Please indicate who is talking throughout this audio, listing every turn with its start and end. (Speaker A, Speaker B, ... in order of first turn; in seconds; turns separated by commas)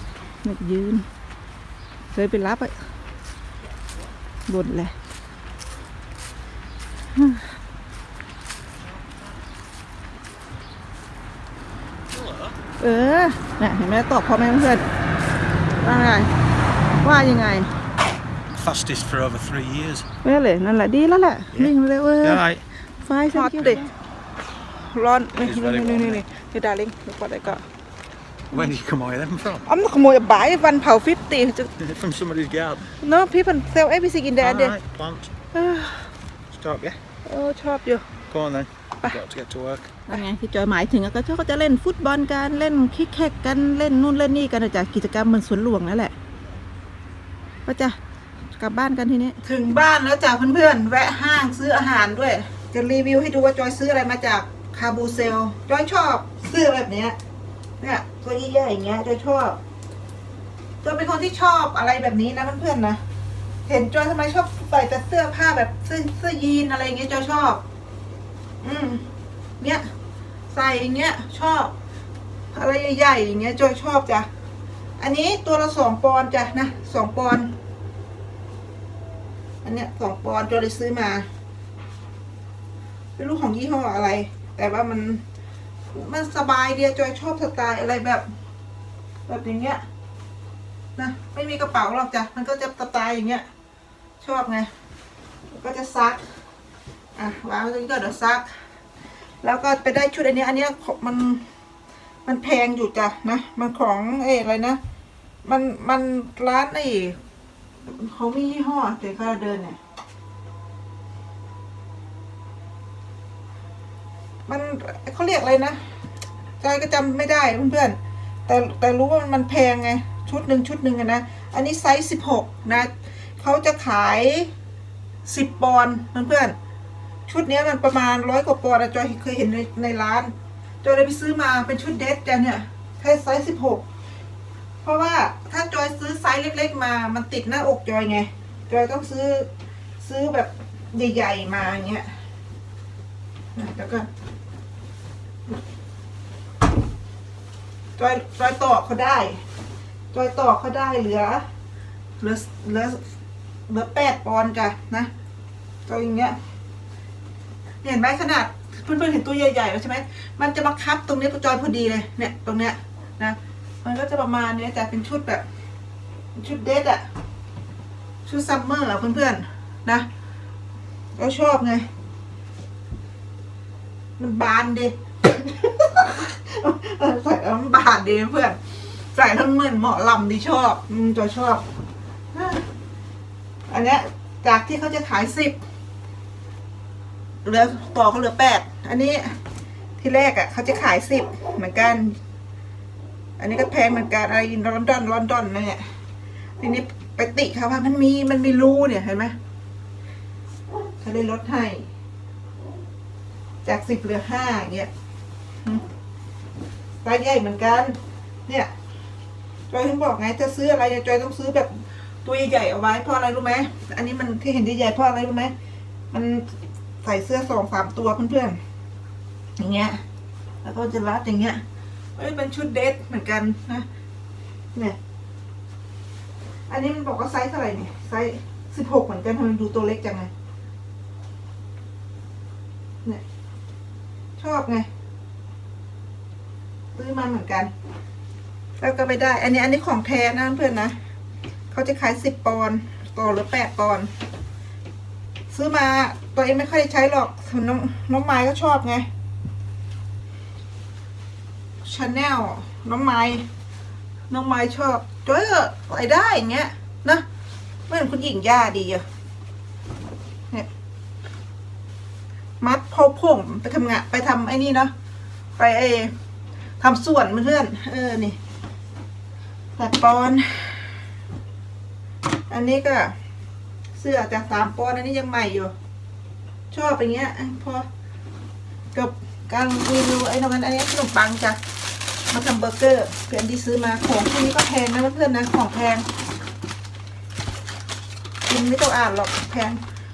Speaker A: 0.4-1.1, Speaker A: 2.1-2.8, Speaker A: 4.5-4.9, Speaker A: 7.2-7.4, Speaker A: 12.8-14.8, Speaker A: 15.8-16.3, Speaker A: 17.0-17.7, Speaker B: 18.5-20.1, Speaker A: 20.2-22.4, Speaker B: 22.2-22.6, Speaker A: 23.0-23.9, Speaker B: 23.4-23.8, Speaker A: 24.8-27.6, Speaker B: 25.4-26.2, Speaker B: 28.5-29.7, Speaker A: 29.6-31.7, Speaker B: 31.8-32.9, Speaker A: 33.0-34.8, Speaker B: 34.4-35.3, Speaker A: 35.5-36.1, Speaker B: 36.5-37.0, Speaker A: 37.2-38.1, Speaker B: 38.3-40.0, Speaker A: 40.1-46.1, Speaker A: 47.7-48.0, Speaker A: 48.5-57.2, Speaker A: 57.8-59.6, Speaker A: 60.8-63.0, Speaker A: 63.7-67.6, Speaker A: 68.6-69.0, Speaker A: 69.6-69.9, Speaker A: 70.5-71.7, Speaker A: 72.5-74.3, Speaker A: 75.0-77.5, Speaker A: 79.6-81.3, Speaker A: 83.2-85.2, Speaker A: 85.9-88.3, Speaker A: 89.3-89.8, Speaker A: 91.0-93.5, Speaker A: 94.2-94.7, Speaker A: 95.5-96.2, Speaker A: 97.2-98.5, Speaker A: 99.4-101.4, Speaker A: 102.2-104.8, Speaker A: 105.5-107.2, Speaker A: 107.9-109.8, Speaker A: 114.5-115.8, Speaker A: 116.6-124.5, Speaker A: 125.3-126.6, Speaker A: 127.3-130.3, Speaker A: 130.8-133.8, Speaker A: 134.8-139.5, Speaker A: 140.0-142.1, Speaker A: 143.6-144.1, Speaker A: 148.0-149.4, Speaker A: 150.1-151.4, Speaker A: 152.2-153.0, Speaker A: 153.7-155.1, Speaker A: 155.9-156.4, Speaker A: 157.8-165.4, Speaker A: 166.4-167.1, Speaker A: 168.3-170.1, Speaker A: 171.2-171.9, Speaker A: 174.2-178.6, Speaker A: 179.1-181.6, Speaker A: 182.3-182.6, Speaker A: 183.7-185.6, Speaker A: 187.4-189.3, Speaker A: 190.0-192.2, Speaker A: 193.4-195.8, Speaker A: 196.6-199.3, Speaker A: 201.0-201.9, Speaker A: 203.7-204.9, Speaker A: 207.0-207.9, Speaker A: 209.7-211.7, Speaker A: 212.2-215.5, Speaker A: 216.1-216.5, Speaker A: 217.0-218.6, Speaker A: 219.6-220.0, Speaker A: 220.6-221.6, Speaker A: 222.2-223.9, Speaker A: 226.7-230.3, Speaker A: 234.4-234.9, Speaker A: 237.0-237.7, Speaker A: 238.8-240.9, Speaker A: 241.7-244.1, Speaker A: 245.5-249.1, Speaker A: 251.8-253.5, Speaker A: 254.3-257.2, Speaker A: 257.9-259.0, Speaker A: 262.6-264.9, Speaker A: 265.6-266.1, Speaker A: 266.8-268.4, Speaker A: 269.8-270.9, Speaker A: 272.5-273.1, Speaker A: 274.0-275.7, Speaker A: 276.7-277.9, Speaker A: 278.9-281.6, Speaker A: 282.3-286.1, Speaker A: 288.5-289.8